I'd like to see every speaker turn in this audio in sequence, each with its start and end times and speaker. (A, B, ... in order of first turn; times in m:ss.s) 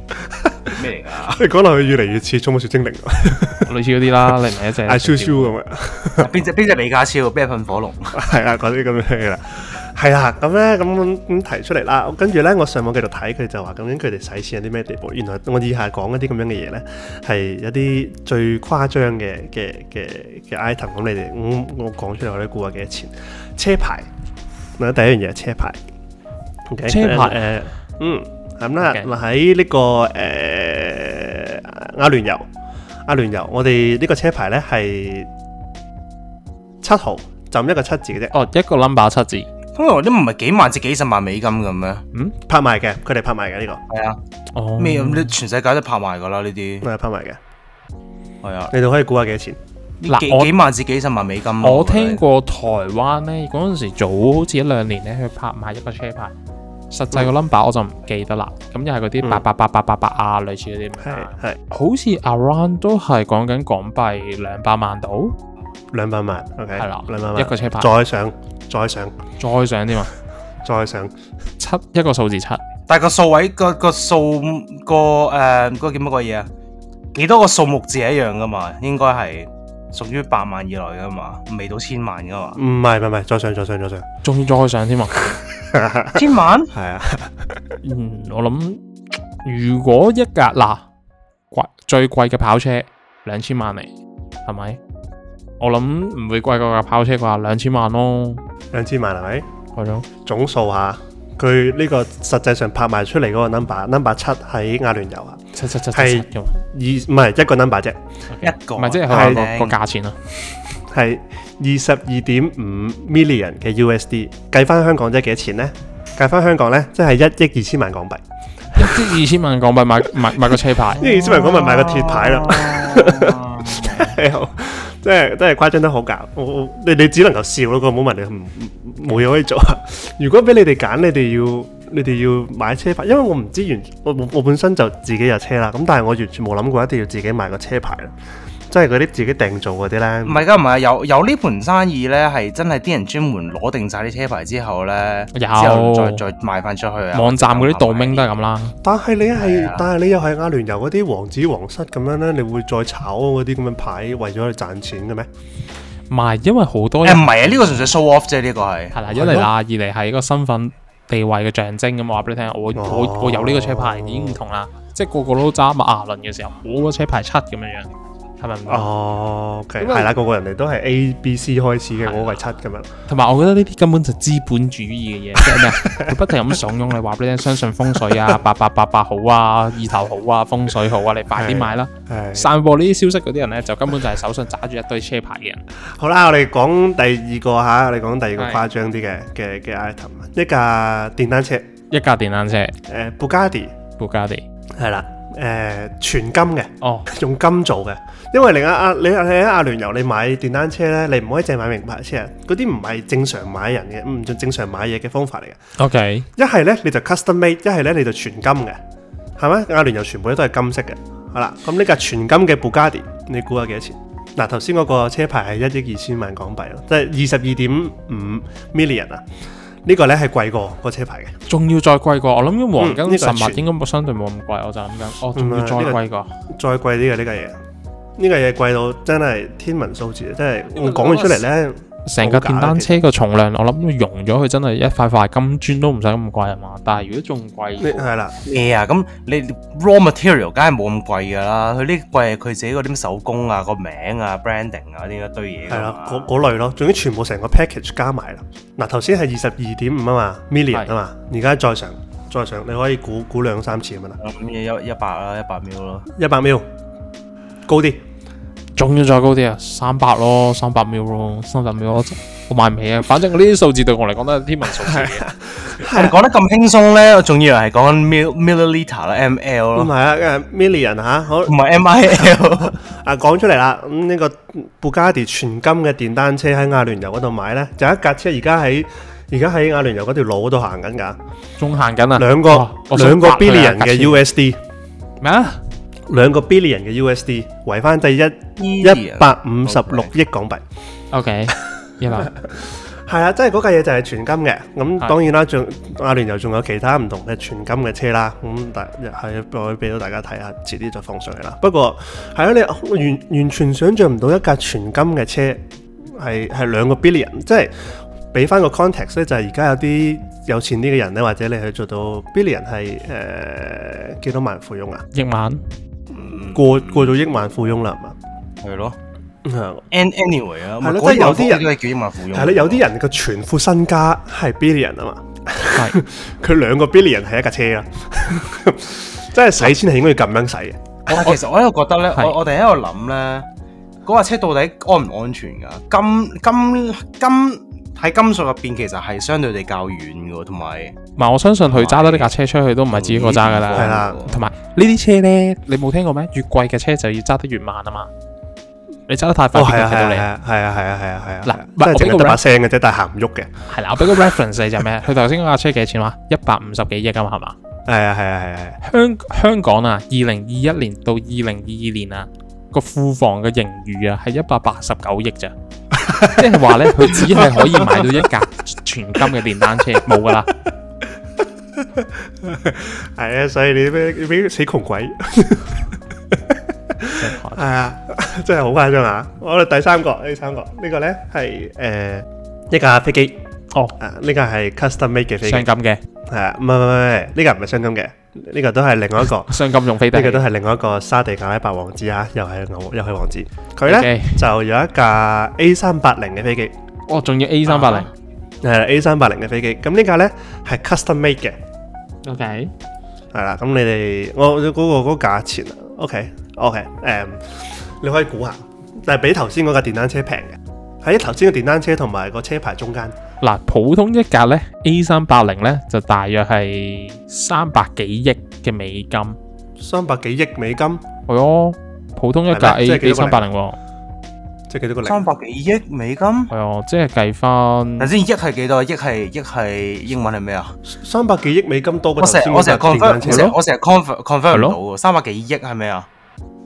0:00.1-0:00.8 A
0:00.8-0:01.4 B
0:01.3-0:06.4 A
0:03.6-0:05.6 C
0:06.2-0:08.2 B
0:08.1-0:24.1 A
0:24.8-0:25.8 A
0:26.7-0:32.5 A
0:26.9-0:27.4 C
0:28.8-0:29.1 C
0:33.1-0:35.3 A
0:36.8-0:38.3 A
0:38.3-0:39.5 C
0:39.8-0:42.0 B
0:42.5-0:43.8 A
0:43.9-0:44.2 B
0:44.5-0:45.3 C
0:44.8-0:46.9 B
0:46.8-0:47.4 A
0:48.4-0:48.7 B
0:48.7-0:49.6 A
0:50.0-0:52.2 B
0:50.1-0:50.5 C
0:51.6-0:56.3 C
0:56.9-1:05.4 C
1:01.0-1:01.6 A
1:05.9-1:09.2 A
1:06.8-1:07.9 C
1:09.4-1:10.1 C
1:10.6-1:11.1 A
1:11.6-1:12.6 C
1:12.9-1:16.5 B
1:17.1-1:22.6 B
1:22.6-1:24.1 A
1:24.2-1:25.4 C
1:25.6-1:27.6 A
1:26.1-1:26.7 B
1:27.8-1:28.8 C
1:29.4-1:30.9 C
1:31.5-1:33.9 C
1:34.5-1:34.8 C
1:35.6-1:38.4 C
1:38.7-1:39.5 A
1:39.8-1:40.1 C
1:40.2-1:48.0 A
1:45.6-1:46.5 C
1:48.3-1:50.2 C
1:48.4-1:49.8 B
1:49.1-1:49.5 A
1:50.9-1:58.2 A
1:58.8-2:01.1 C
2:00.2-2:18.1 A
2:01.0-2:04.1 B
2:18.7-2:20.4 A
2:20.2-2:28.4 B
2:25.3-2:26.2 C
2:27.1-2:28.8 C
2:28.8-2:35.3 A
2:29.4-2:29.9 B
2:36.1-2:37.9 C
2:37.0-2:39.0 B
2:38.9-2:47.9 C
2:39.1-2:39.5 A
2:42.8-2:44.4 A
2:48.4-2:48.9 C
2:48.7-2:52.9 A
2:49.8-2:50.1 C
2:52.0-2:52.4 C
2:53.1-3:05.6 C
2:55.4-2:56.2 A
2:58.0-2:58.4 A
3:01.3-3:02.5 A
3:05.9-3:11.7 A
3:08.4-3:08.6 C
3:11.9-3:12.8 C
3:12.9-3:13.7 A
3:14.0-3:14.4 C
3:14.8-3:25.6 A
3:16.8-3:17.1 C
3:25.8-3:26.3 C
3:26.4-3:28.8 A
3:29.4-3:39.2 A
3:39.8-3:41.4 A
3:41.5-3:46.3 C
3:42.8-3:43.7 A
3:45.3-3:47.6 A
3:48.2-3:53.0 A
3:50.8-3:51.4 C
3:52.1-3:58.1 C
3:57.8-3:58.4 A
3:58.4-4:06.3 B
4:05.7-4:14.2 A
4:14.2-4:16.1 B
4:16.1-4:16.7 A
4:17.7-4:18.0 A
4:18.8-4:25.3 C
4:24.8-4:26.2 A
4:25.8-4:29.9 B
4:29.8-4:31.6 A
4:31.5-4:32.8 B
4:32.1-4:41.2 A
4:41.6-4:44.2 C
4:42.2-4:44.6 A
4:45.2-4:45.6 C
4:46.1-4:50.6 A
4:48.6-4:50.1 B
4:51.1-4:52.3 C
4:51.6-5:15.0 A
5:15.1-5:15.6 C
5:16.1-5:17.2 B
5:16.5-5:18.2 A
5:18.6-5:19.0 B
5:19.4-5:19.8 A
5:19.9-5:22.8 B
5:20.8-5:21.7 A
5:22.3-5:31.2 A
5:31.1-5:33.5 B
5:34.1-5:41.0 B
5:41.2-5:48.1 C
5:41.7-5:42.3 B
5:42.9-5:44.4 B
5:43.7-5:44.3 A
5:49.1-5:50.3 C
5:49.5-5:53.5 A
5:51.4-5:52.4 C
5:53.7-5:57.6 C
5:57.9-5:58.8 A
5:58.8-6:05.5 C
6:05.9-6:07.9 A
6:06.2-6:10.5 C
6:11.8-6:23.4 A
6:17.2-6:17.6 C
6:24.0-6:25.7 A
6:25.4-6:26.0 C
6:26.3-6:29.6 A
6:29.2-6:30.5 C
6:30.1-6:36.7 A
6:33.8-6:34.5 C
6:37.1-6:38.1 C
6:38.6-6:41.6 A
6:42.2-6:42.7 C
6:43.3-6:53.2 A
6:53.4-6:59.4 C
6:59.8-7:01.0 A
7:01.3-7:03.8 C
7:02.5-7:03.5 A
7:04.7-7:05.3 A
7:05.0-7:06.5 B
7:06.5-7:08.1 C
7:08.0-7:10.8 B
7:10.9-7:13.6 A
7:12.2-7:16.1 B
7:13.3-7:13.6 C
7:14.5-7:14.8 C